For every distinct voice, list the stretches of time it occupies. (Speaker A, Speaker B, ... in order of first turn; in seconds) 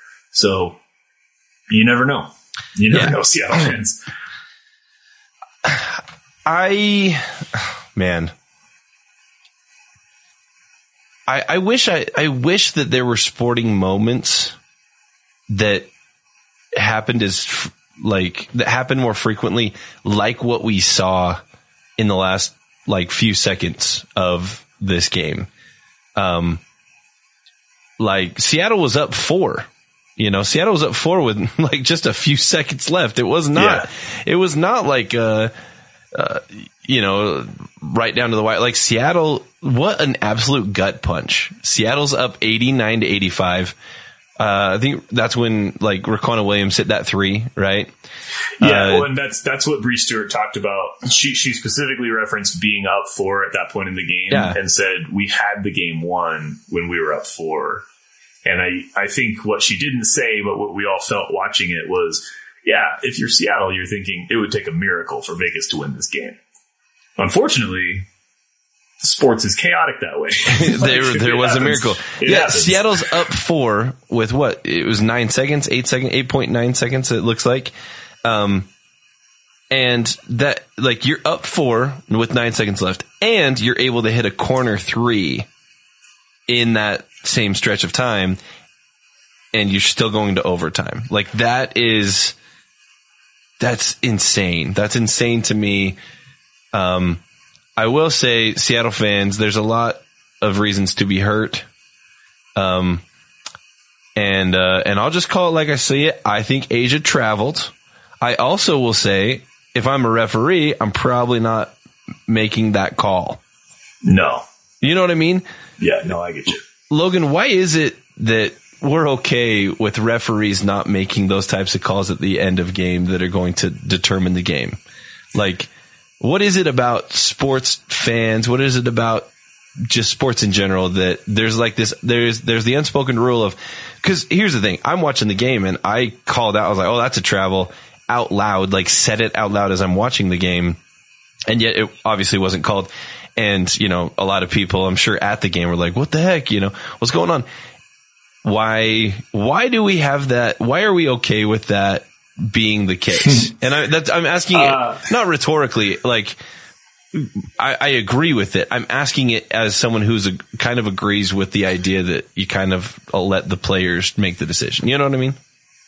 Speaker A: 0.3-0.8, 1.7-4.0, 33.5-33.9, 48.6-57.8, 58.4-66.4, 67.2-68.1, 69.0-73.2, 114.0-114.4, 115.8-116.6, 154.5-155.1
Speaker B: 2.9-3.2, 5.6-8.3, 11.3-14.6, 15.5-15.9, 16.8-21.4, 22.0-25.5, 26.1-26.6, 28.0-29.7, 30.2-35.5, 36.1-43.7, 44.4-47.9, 48.6-49.1, 54.3-54.6, 70.5-77.7, 78.2-78.7, 79.7-85.5, 86.5-88.4, 89.5-92.3, 93.6-96.0, 96.7-97.2, 97.8-101.7, 102.5-103.0, 104.2-111.7, 112.3-113.4, 114.8-115.4, 116.9-124.8, 125.3-125.7, 126.2-129.3, 129.9-140.8, 141.5-147.4, 148.4-156.4, 157.1-165.4